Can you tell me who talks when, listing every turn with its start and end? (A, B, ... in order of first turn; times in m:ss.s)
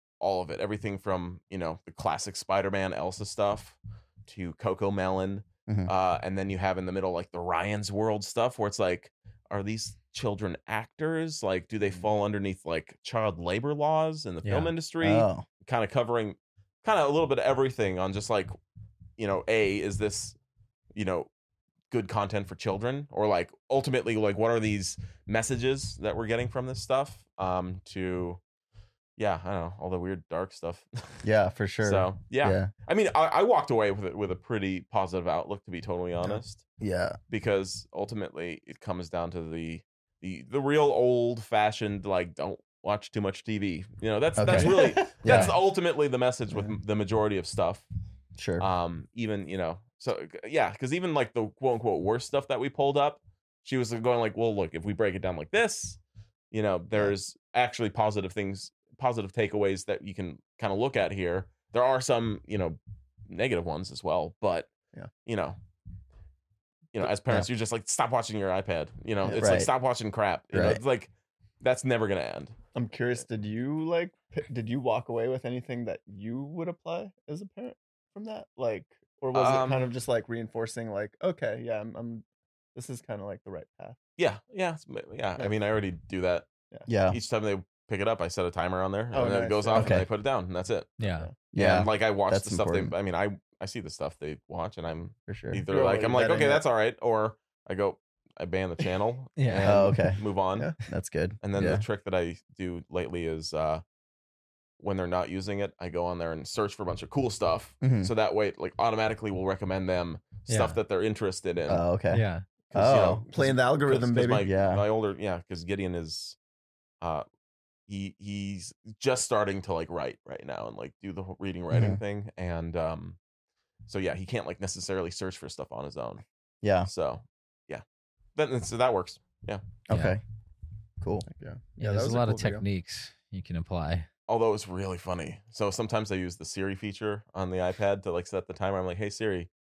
0:00.2-0:18.5 A
0:14.4-0:14.7 B
0:15.0-0:15.4 C
0:19.2-0:20.4 A
0:20.9-0:21.3 A
0:21.9-0:28.4 A
0:29.2-0:31.2 A
0:31.2-0:32.7 C
0:31.8-0:36.6 A
0:36.3-0:37.2 C
0:37.3-0:47.8 A
0:44.4-0:45.5 C
0:48.4-0:48.6 C
0:48.6-0:56.0 A
0:56.5-1:04.7 A
1:05.2-1:05.6 A
1:06.9-1:11.1 A
1:07.0-1:07.5 C
1:09.2-1:09.6 D
1:09.4-1:09.7 C
1:10.5-1:10.8 C
1:11.6-1:12.5 A
1:12.7-1:24.0 D
1:19.3-1:19.9 A
1:24.2-1:26.5 A
1:26.9-1:27.2 C
1:27.1-1:31.0 A
1:29.1-1:30.0 D
1:29.8-1:30.1 C
1:31.0-1:31.3 B
1:31.0-1:31.3 D
1:31.5-1:32.9 C
1:31.5-1:40.7 A
1:35.3-1:35.6 C
1:35.7-1:36.6 D
1:39.4-1:39.8 B
1:39.6-1:40.2 C
1:40.9-1:41.8 C
1:41.4-1:43.8 A
1:44.8-1:51.8 A
1:47.8-1:48.1 C
1:50.5-1:50.8 B
1:51.7-1:53.2 C
1:52.1-1:52.5 B
1:52.6-1:56.4 A
1:53.3-1:54.5 D
1:54.4-1:54.8 C
1:57.9-2:03.2 A
2:01.7-2:02.0 C
2:03.9-2:06.2 A
2:06.6-2:06.9 C
2:06.9-2:07.8 A
2:08.4-2:09.6 A
2:09.9-2:10.2 C
2:09.9-2:10.2 B
2:11.0-2:11.2 C
2:11.3-2:12.6 D
2:11.8-2:14.1 B
2:14.3-2:19.5 A